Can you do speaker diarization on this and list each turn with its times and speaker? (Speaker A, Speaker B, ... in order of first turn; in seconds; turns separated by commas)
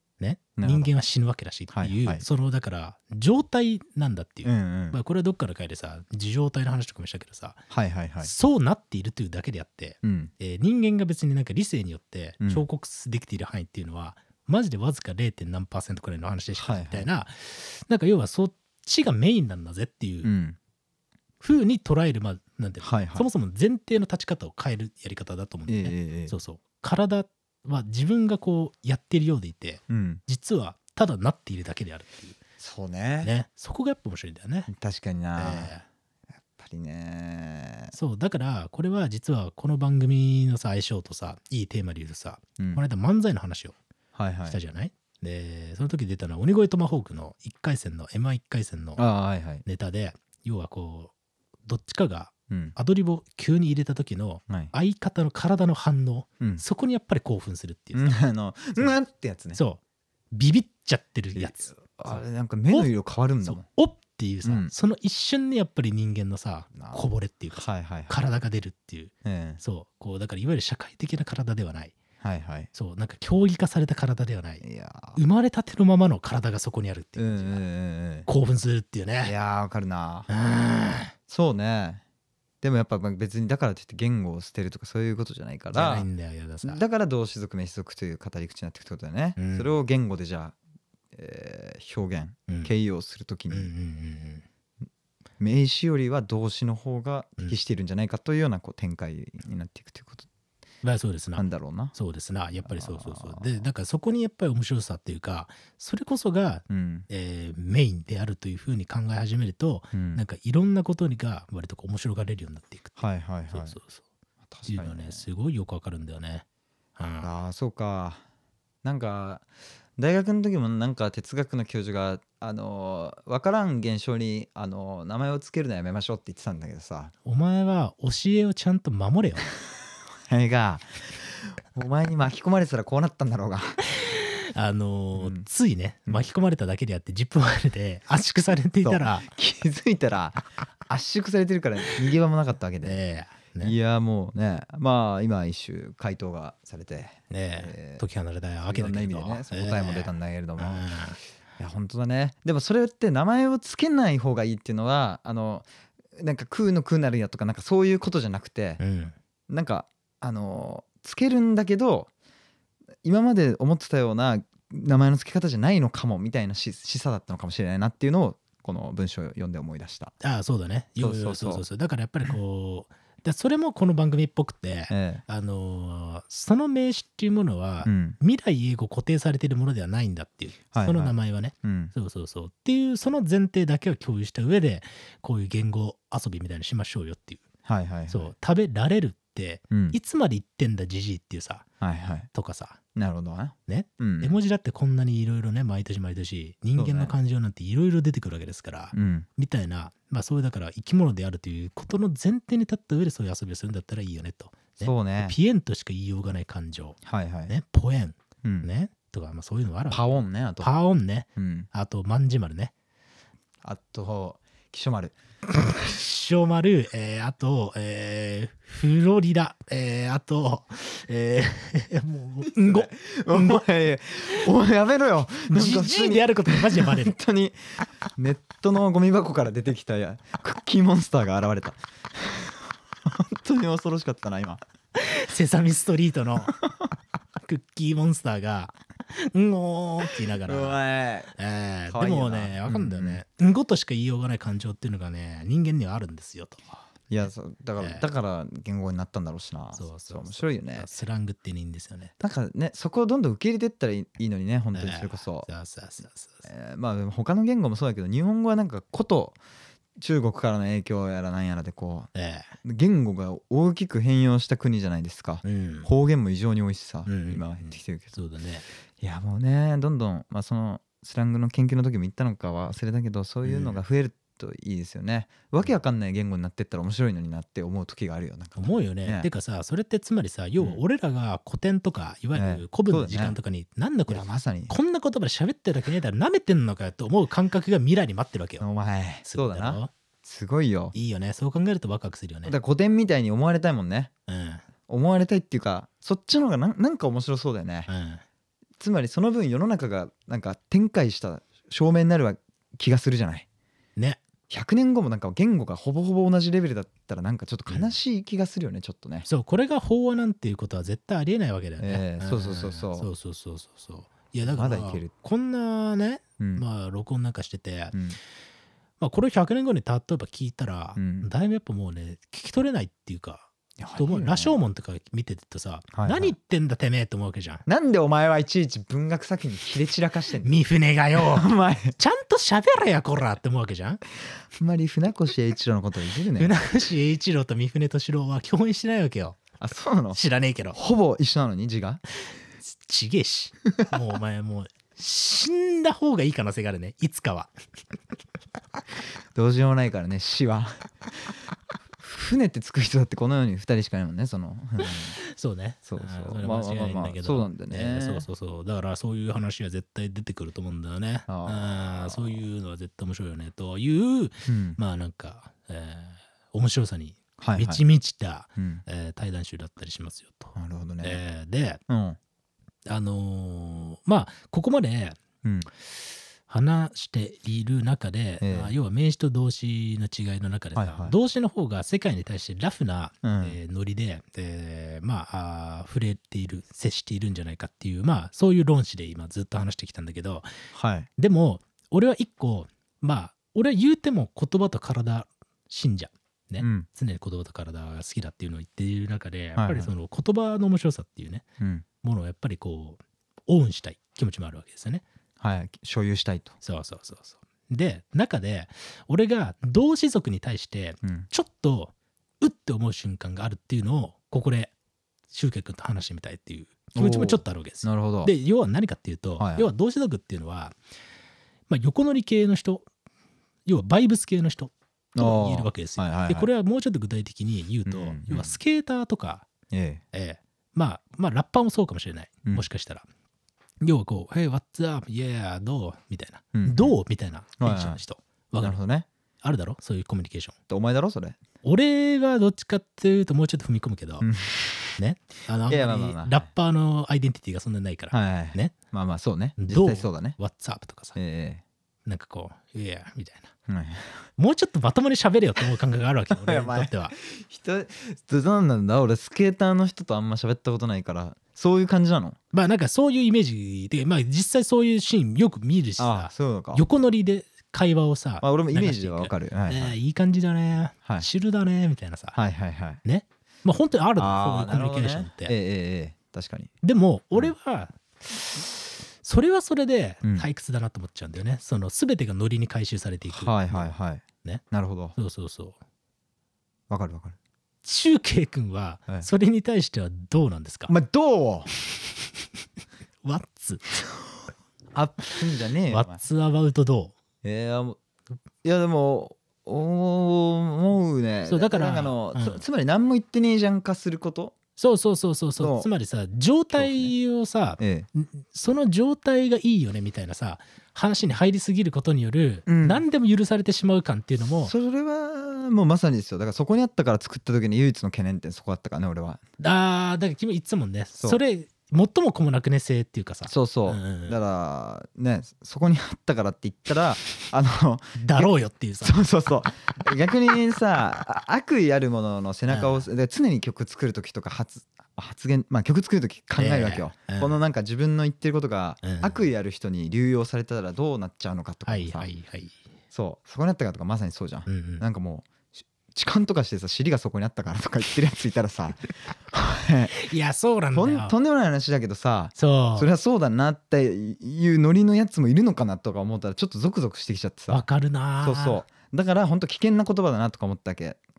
Speaker A: 0.2-7.6, Speaker B: 0.6-0.9, Speaker B: 1.7-2.2, Speaker B: 4.4-5.0, Speaker B: 7.7-8.3, Speaker A: 8.2-20.3, Speaker B: 10.0-10.3, Speaker B: 16.6-17.1, Speaker B: 20.2-20.6, Speaker A: 21.4-32.4, Speaker B: 22.8-23.3, Speaker B: 25.7-26.3, Speaker B: 29.9-30.2, Speaker B: 32.6-33.3, Speaker A: 33.2-34.7, Speaker B: 34.7-35.7, Speaker A: 35.4-35.8, Speaker B: 36.6-37.9, Speaker A: 37.9-43.8, Speaker B: 44.1-44.6, Speaker A: 44.5-49.0, Speaker B: 49.0-49.6, Speaker A: 49.6-51.1, Speaker A: 51.7-58.2, Speaker B: 52.5-52.8, Speaker B: 57.9-59.6, Speaker A: 59.5-59.8, Speaker A: 60.3-62.9, Speaker B: 61.3-63.6, Speaker A: 63.4-71.9, Speaker B: 64.4-64.7, Speaker B: 66.7-68.2, Speaker B: 69.2-69.6, Speaker B: 72.2-72.7, Speaker A: 72.7-74.6, Speaker B: 74.6-75.2, Speaker A: 75.1-77.6, Speaker B: 77.2-78.3, Speaker A: 78.2-79.3, Speaker B: 79.2-80.3, Speaker A: 80.3-81.1, Speaker B: 81.3-82.0, Speaker B: 82.6-86.1, Speaker A: 85.7-86.8, Speaker B: 86.6-90.5, Speaker A: 89.4-89.7, Speaker B: 91.1-93.7, Speaker A: 93.5-94.4, Speaker B: 95.4-100.3, Speaker A: 100.8-113.0, Speaker B: 101.4-101.9, Speaker B: 102.6-103.6, Speaker B: 106.7-107.1, Speaker B: 109.9-110.2, Speaker B: 113.0-113.8, Speaker A: 113.5-114.0, Speaker B: 114.5-115.2, Speaker A: 114.7-116.4, Speaker A: 117.0-117.3, Speaker B: 117.2-118.2, Speaker B: 118.8-119.5, Speaker B: 120.0-127.1, Speaker A: 127.2-129.5, Speaker B: 130.3-133.8, Speaker A: 133.9-139.3, Speaker B: 135.2-135.4, Speaker B: 138.8-143.0, Speaker A: 142.8-143.8, Speaker B: 143.6-148.0, Speaker A: 147.3-151.2, Speaker B: 148.6-150.8, Speaker B: 151.6-158.8, Speaker A: 158.8-159.1, Speaker B: 159.5-162.1, Speaker B: 163.0-170.1, Speaker A: 170.2-187.4, Speaker B: 171.0-171.6, Speaker B: 174.9-175.2, Speaker B: 177.8-178.2, Speaker B: 180.7-181.9, Speaker B: 187.7-188.3, Speaker A: 188.1-191.7, Speaker B: 189.7-190.0, Speaker B: 191.8-192.3, Speaker A: 192.3-192.8, Speaker B: 192.9-194.3, Speaker A: 193.7-210.0, Speaker B: 196.8-197.1, Speaker B: 198.9-199.3, Speaker B: 204.8-205.3, Speaker B: 207.0-207.5, Speaker B: 208.4-208.7, Speaker B: 209.9-210.7, Speaker A: 210.6-212.7, Speaker B: 211.3-211.7, Speaker B: 213.6-215.1, Speaker A: 215.5-223.6, Speaker B: 222.4-227.6, Speaker A: 225.5-227.2, Speaker B: 228.1-234.6, Speaker A: 234.9-236.6, Speaker A: 237.4-240.8, Speaker B: 240.4-241.3, Speaker A: 241.3-246.8, Speaker B: 241.9-243.2, Speaker B: 247.1-250.9, Speaker A: 247.8-248.0, Speaker A: 249.7-252.1, Speaker B: 252.2-255.5, Speaker A: 254.7-256.5, Speaker B: 256.4-259.4, Speaker B: 260.0-262.1, Speaker A: 262.1-262.5, Speaker B: 262.6-268.2, Speaker A: 265.4-265.9, Speaker A: 267.1-268.6, Speaker B: 269.0-279.3, Speaker A: 273.4-273.8, Speaker A: 278.6-288.6, Speaker B: 282.3-283.4, Speaker B: 284.1-284.7, Speaker B: 288.6-290.9, Speaker A: 289.2-289.9, Speaker A: 290.9-292.6, Speaker B: 292.4-294.1, Speaker A: 294.3-294.6, Speaker B: 294.9-297.9, Speaker A: 297.9-298.2, Speaker B: 298.8-303.4, Speaker A: 304.0-304.2, Speaker B: 304.5-309.3, Speaker A: 307.7-307.9, Speaker A: 309.2-318.0, Speaker B: 311.8-313.1, Speaker B: 314.4-315.1, Speaker B: 316.4-316.6, Speaker B: 317.9-318.2, Speaker A: 319.0-327.6, Speaker B: 320.9-321.3, Speaker B: 323.8-324.6, Speaker B: 325.9-326.3, Speaker B: 327.7-330.6, Speaker A: 330.4-334.0, Speaker B: 331.1-331.9, Speaker B: 334.5-336.6, Speaker A: 336.4-339.4, Speaker B: 339.6-340.2, Speaker A: 340.1-340.8, Speaker B: 340.7-342.0, Speaker A: 342.6-347.5, Speaker B: 349.3-351.1, Speaker B: 352.0-355.2, Speaker A: 354.8-371.8, Speaker B: 355.9-358.2, Speaker B: 361.3-362.4, Speaker B: 364.4-364.8, Speaker B: 367.4-367.8, Speaker B: 368.6-368.8, Speaker B: 370.6-371.2, Speaker B: 371.9-372.2, Speaker A: 372.9-375.2, Speaker B: 375.4-375.7, Speaker A: 376.5-390.5, Speaker B: 378.4-378.7, Speaker B: 380.7-381.1, Speaker B: 383.2-383.6, Speaker B: 390.7-391.1, Speaker A: 391.2-401.4, Speaker B: 396.6-396.9, Speaker B: 399.6-399.9, Speaker B: 401.6-401.8, Speaker A: 402.0-405.0, Speaker B: 405.4-406.5, Speaker A: 406.6-414.7, Speaker A: 415.3-420.8, Speaker B: 416.9-418.3, Speaker B: 419.4-419.7, Speaker A: 421.7-422.9, Speaker A: 423.6-429.5, Speaker B: 425.1-426.5, Speaker B: 427.9-428.6, Speaker B: 429.7-430.0, Speaker A: 430.1-433.1, Speaker A: 433.8-438.8, Speaker B: 436.5-436.9, Speaker B: 437.6-438.0, Speaker B: 438.6-439.1, Speaker A: 439.4-440.5, Speaker B: 440.7-441.4, Speaker A: 441.6-444.3, Speaker B: 444.2-444.9, Speaker A: 445.0-448.7, Speaker B: 445.7-446.5, Speaker B: 448.1-450.4, Speaker A: 449.6-451.2, Speaker B: 451.1-451.6, Speaker A: 452.1-453.5, Speaker B: 453.7-454.3, Speaker A: 454.4-457.1, Speaker B: 456.3-462.4, Speaker A: 462.5-472.4, Speaker B: 466.0-466.8, Speaker B: 468.4-469.9, Speaker B: 472.3-473.0, Speaker A: 473.0-475.5, Speaker B: 474.2-476.7, Speaker A: 476.8-478.0, Speaker A: 479.2-484.6, Speaker B: 480.2-480.5, Speaker B: 483.3-485.1, Speaker A: 485.1-485.8, Speaker B: 486.9-487.4, Speaker A: 487.8-490.9, Speaker B: 490.9-491.7, Speaker A: 493.2-494.0, Speaker B: 494.9-496.2, Speaker A: 495.9-497.1, Speaker B: 497.4-498.0, Speaker B: 498.6-504.6, Speaker A: 501.5-502.6, Speaker A: 504.8-514.7, Speaker B: 505.6-505.9, Speaker B: 506.7-507.1, Speaker B: 507.8-508.1, Speaker B: 512.7-513.0, Speaker B: 514.6-519.4, Speaker A: 519.6-524.4, Speaker B: 523.5-542.3, Speaker A: 528.2-529.2, Speaker A: 532.7-533.0, Speaker A: 536.6-537.6, Speaker A: 539.0-539.4, Speaker A: 541.9-542.8, Speaker B: 543.1-550.2, Speaker A: 544.7-545.0, Speaker A: 550.1-551.3, Speaker B: 550.9-557.8, Speaker A: 552.5-553.1, Speaker A: 557.7-558.8, Speaker B: 558.4-561.2